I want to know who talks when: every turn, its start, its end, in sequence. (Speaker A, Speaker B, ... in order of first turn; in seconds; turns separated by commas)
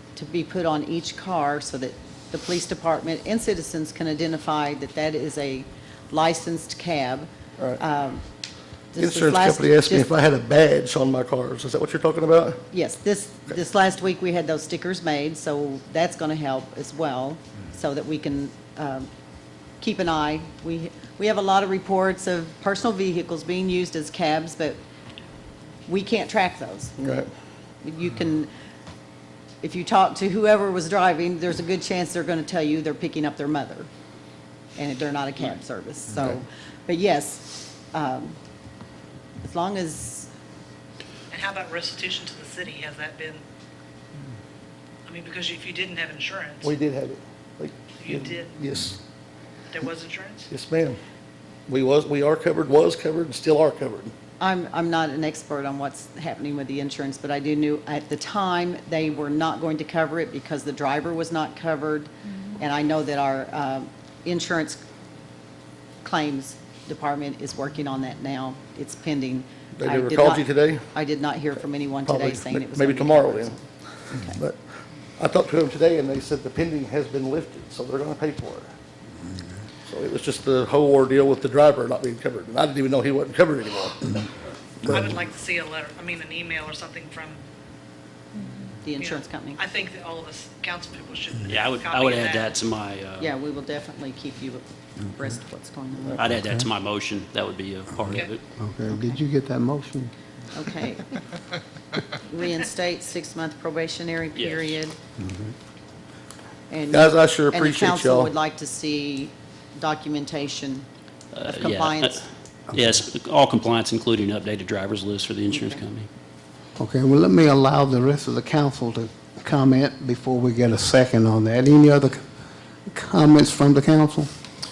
Speaker A: 0.1-8.2, Speaker A: 8.9-10.1, Speaker B: 9.0-12.6, Speaker A: 12.7-19.1, Speaker A: 19.8-24.8, Speaker A: 25.9-27.0, Speaker B: 27.0-27.3, Speaker A: 27.8-28.5, Speaker A: 29.6-33.9, Speaker A: 34.8-38.4, Speaker A: 39.4-40.3, Speaker C: 41.3-43.4, Speaker C: 45.1-46.7, Speaker B: 46.6-49.0, Speaker C: 48.0-48.6, Speaker C: 49.7-50.5, Speaker B: 50.5-51.0, Speaker B: 51.7-54.1, Speaker A: 54.4-64.8, Speaker A: 66.0-74.4, Speaker B: 69.8-70.8, Speaker B: 72.1-73.5, Speaker B: 74.3-74.6, Speaker B: 75.2-78.7, Speaker B: 79.9-84.3, Speaker C: 84.8-87.4, Speaker A: 88.8-89.6, Speaker C: 89.0-92.6, Speaker D: 91.5-93.3, Speaker A: 93.2-96.2, Speaker D: 96.2-98.4, Speaker E: 98.1-100.1, Speaker A: 100.5-101.1, Speaker A: 102.0-105.0, Speaker D: 104.3-104.8, Speaker E: 105.2-105.5, Speaker A: 106.7-110.9, Speaker B: 106.9-108.3, Speaker D: 111.3-116.1, Speaker A: 111.4-112.2, Speaker E: 112.7-113.0, Speaker A: 115.5-115.8, Speaker E: 116.8-122.2, Speaker E: 122.9-124.3